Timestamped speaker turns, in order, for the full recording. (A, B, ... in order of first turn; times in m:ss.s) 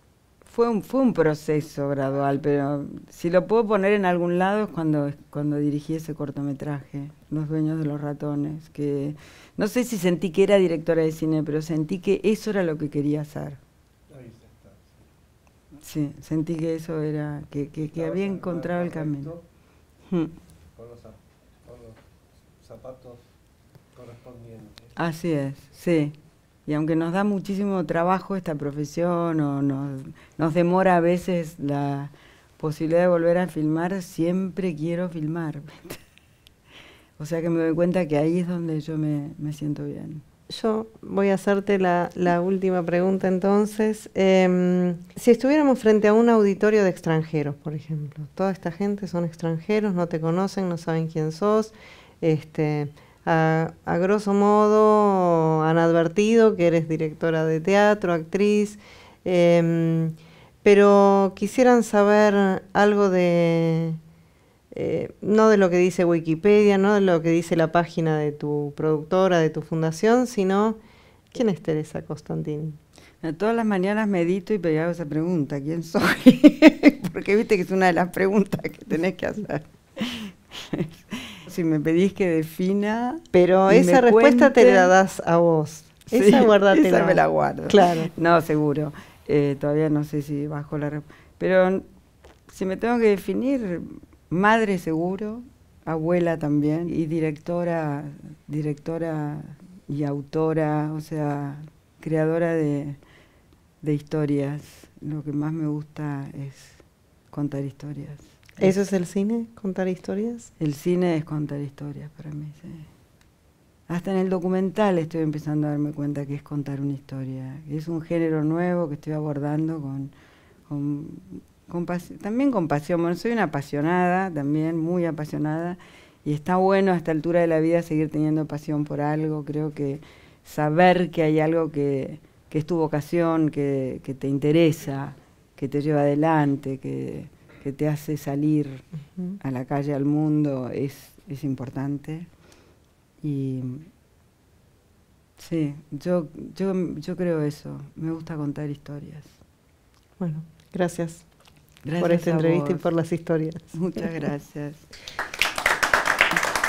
0:00.4-0:13.6 A
0:14.1-0:15.0 B
0:15.8-0:19.3 A
0:17.9-0:19.4 B
0:20.1-0:20.3 A
0:20.8-0:22.0 B
0:22.6-0:23.2 B
0:23.9-0:24.9 B
0:25.0-0:26.1 A
0:26.6-0:36.0 A
0:37.2-0:40.2 A
0:40.5-1:04.0 C
1:04.7-1:10.8 C
1:11.3-1:12.8 C
1:13.2-1:24.9 A
1:23.3-1:28.1 C
1:26.1-1:31.8 A
1:32.5-1:43.0 A
1:43.8-1:46.8 A
1:47.3-1:48.7 A
1:48.6-1:50.5 C
1:50.6-1:52.9 A
1:53.9-2:00.1 A
2:00.7-2:18.9 A
2:19.4-2:22.3 A
2:23.2-2:23.9 A
2:25.4-2:29.3 A
2:30.2-2:31.2 C
2:31.8-2:32.9 A
2:32.0-2:33.7 C
2:33.7-2:34.9 A